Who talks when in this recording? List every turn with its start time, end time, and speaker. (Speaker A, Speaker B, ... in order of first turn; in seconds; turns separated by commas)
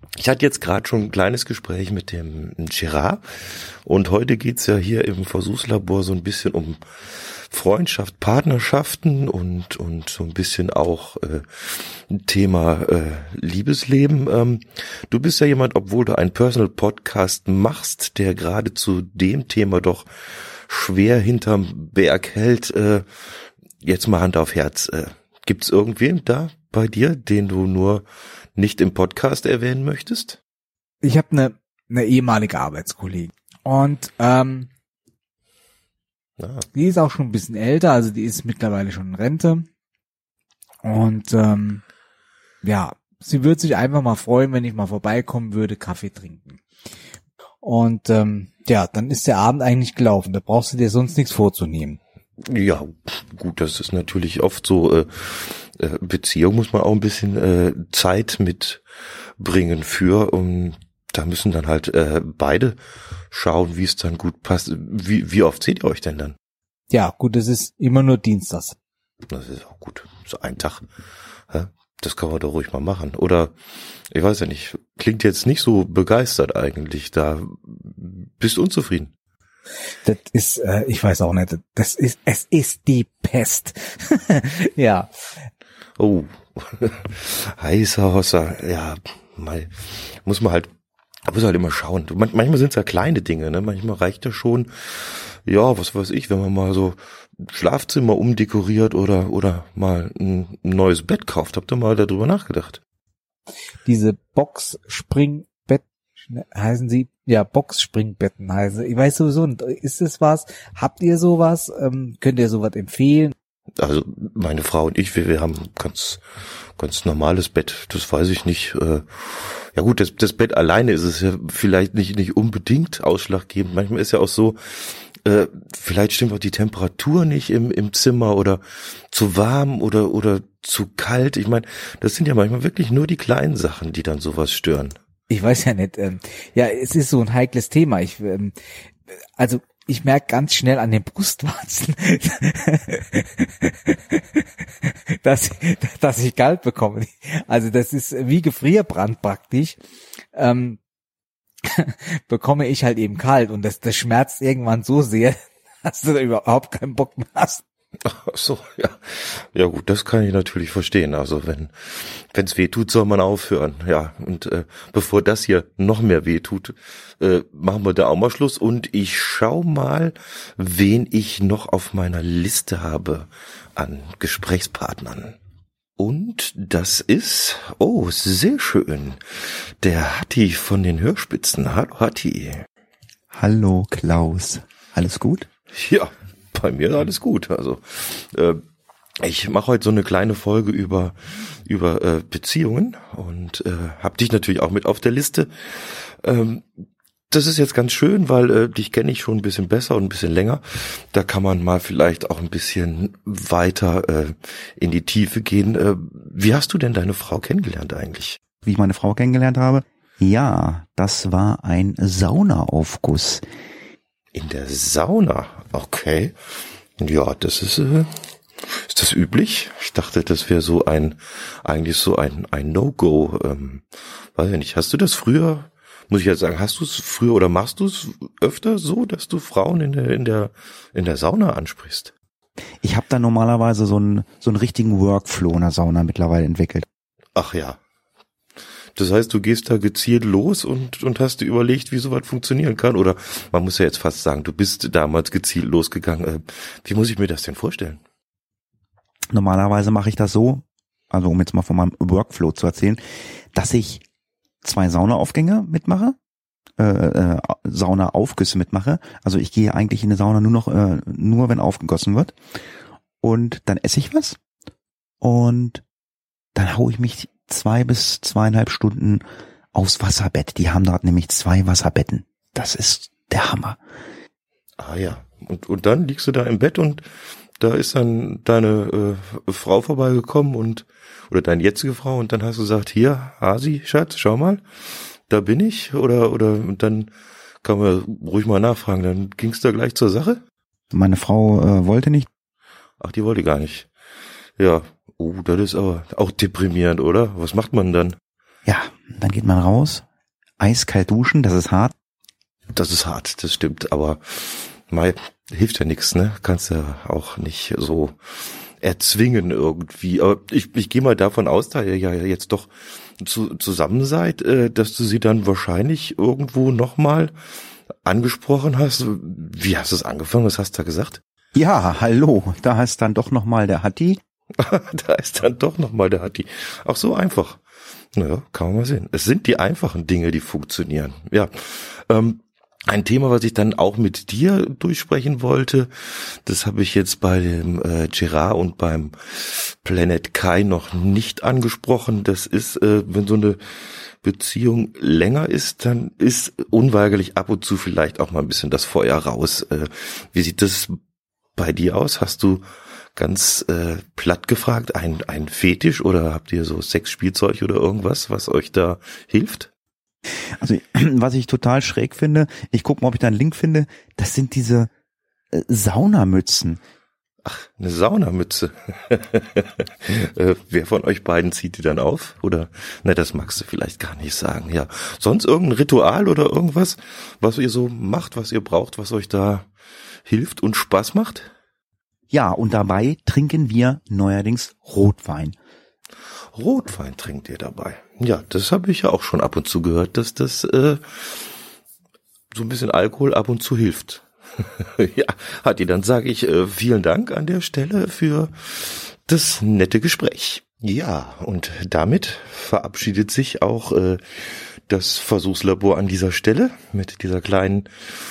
Speaker A: 0.2-20.1, Speaker A: 20.7-23.0, Speaker A: 23.8-28.0, Speaker A: 28.6-30.4, Speaker B: 31.0-34.7, Speaker A: 36.4-36.6, Speaker B: 36.7-39.7, Speaker B: 40.8-41.8, Speaker B: 42.6-46.6, Speaker B: 47.6-52.0, Speaker A: 52.5-58.8, Speaker A: 59.4-62.8, Speaker A: 63.3-66.3, Speaker B: 66.9-68.8, Speaker A: 69.3-70.8, Speaker A: 71.5-73.5, Speaker A: 74.1-79.1, Speaker B: 80.0-85.1, Speaker A: 86.0-90.7, Speaker A: 91.3-102.8, Speaker B: 103.8-113.3, Speaker A: 113.8-116.2, Speaker A: 116.8-134.9, Speaker B: 135.3-138.6, Speaker B: 139.1-149.8, Speaker B: 150.3-150.8, Speaker B: 151.6-157.6, Speaker A: 158.1-175.3, Speaker A: 176.0-179.2, Speaker A: 179.8-182.7, Speaker C: 183.3-185.5, Speaker A: 185.7-188.6, Speaker A: 189.2-191.1, Speaker A: 191.7-196.6, Speaker A: 197.3-208.4, Speaker C: 208.6-213.4, Speaker A: 214.3-216.3, Speaker A: 217.0-218.1, Speaker A: 218.7-223.8, Speaker A: 224.3-232.1, Speaker C: 232.8-236.8, Speaker A: 237.3-237.8, Speaker A: 238.9-248.0, Speaker C: 249.3-253.0, Speaker C: 253.5-254.0, Speaker C: 254.6-256.1, Speaker C: 256.8-262.3, Speaker C: 263.2-264.4, Speaker C: 265.2-265.8, Speaker C: 266.5-273.8, Speaker A: 274.8-277.0, Speaker A: 277.6-284.6, Speaker A: 285.3-287.1, Speaker A: 287.6-290.4, Speaker C: 290.9-292.3, Speaker A: 293.0-293.9, Speaker A: 294.6-298.1, Speaker C: 298.6-300.0, Speaker C: 300.6-301.9, Speaker A: 302.7-308.1, Speaker A: 308.8-317.3, Speaker A: 318.0-321.2, Speaker C: 321.5-324.2, Speaker A: 324.6-327.6, Speaker A: 328.1-343.6, Speaker A: 344.2-350.9, Speaker A: 351.6-352.6, Speaker A: 353.1-359.7, Speaker C: 360.6-364.9, Speaker C: 365.5-366.8, Speaker A: 367.4-379.7, Speaker A: 380.2-381.5, Speaker C: 382.3-385.6, Speaker A: 386.5-391.0, Speaker A: 392.5-407.9